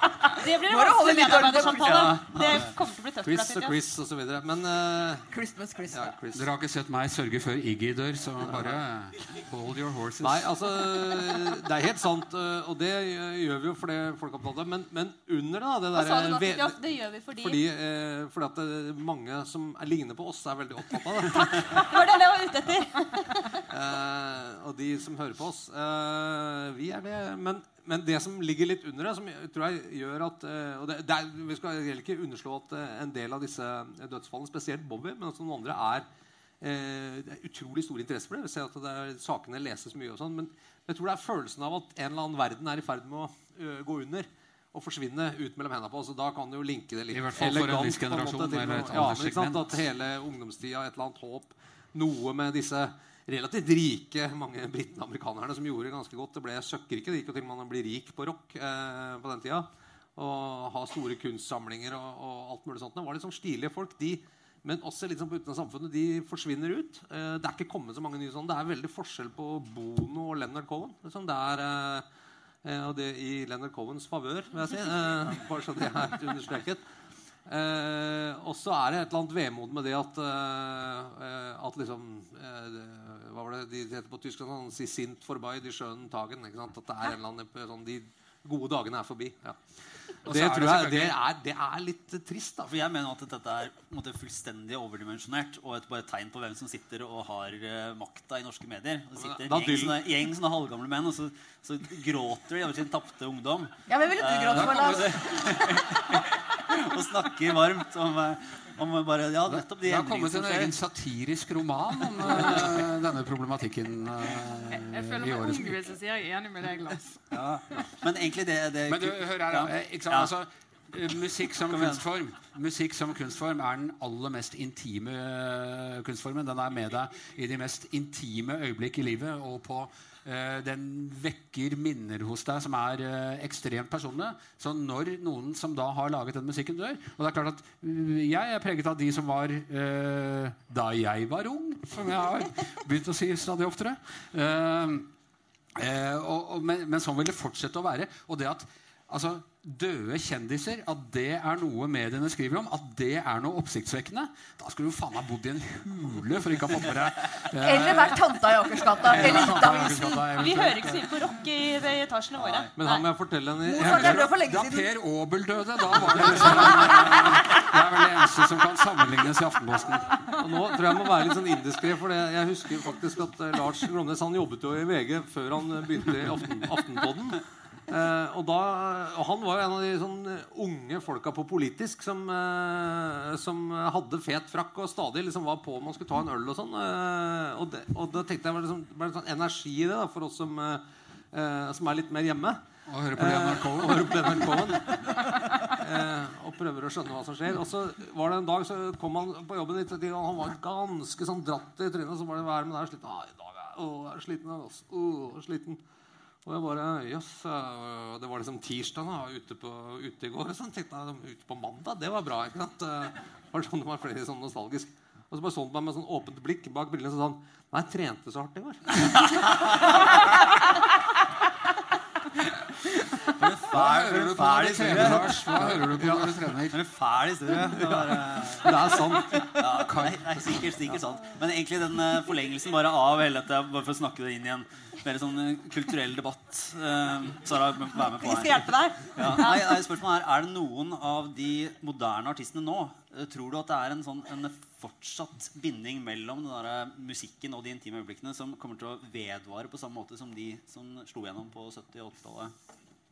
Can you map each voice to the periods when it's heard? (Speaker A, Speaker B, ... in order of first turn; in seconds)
Speaker A: 0.2-2.5, 5.3-6.1, 103.9-105.4, 157.6-160.3, 163.7-164.9
Speaker B: 0.4-3.8, 15.9-17.6, 21.3-23.6, 160.3-163.1, 237.9-239.8
Speaker C: 1.8-2.2, 92.7-110.8, 112.3-112.7, 117.3-120.3, 121.6-122.0, 162.4-162.7, 219.1-220.2, 223.2-225.9, 226.7-252.5
Speaker D: 3.2-5.3, 5.9-6.5, 10.2-16.8, 17.4-21.9, 23.7-36.1, 36.6-72.1, 72.6-76.8, 77.5-89.6, 90.2-92.7, 99.2-100.1, 162.8-164.3, 165.9-167.1, 170.4-192.6, 193.2-205.8, 206.4-219.8, 224.9-226.3, 227.7-230.0
Speaker E: 6.3-10.5, 47.1-49.8, 90.2-91.2, 104.5-105.4, 109.5-115.8, 118.9-145.1, 145.8-158.2, 159.0-161.1, 163.8-170.2, 192.9-194.8, 223.7-226.8, 229.8-230.2
Speaker F: 114.7-117.3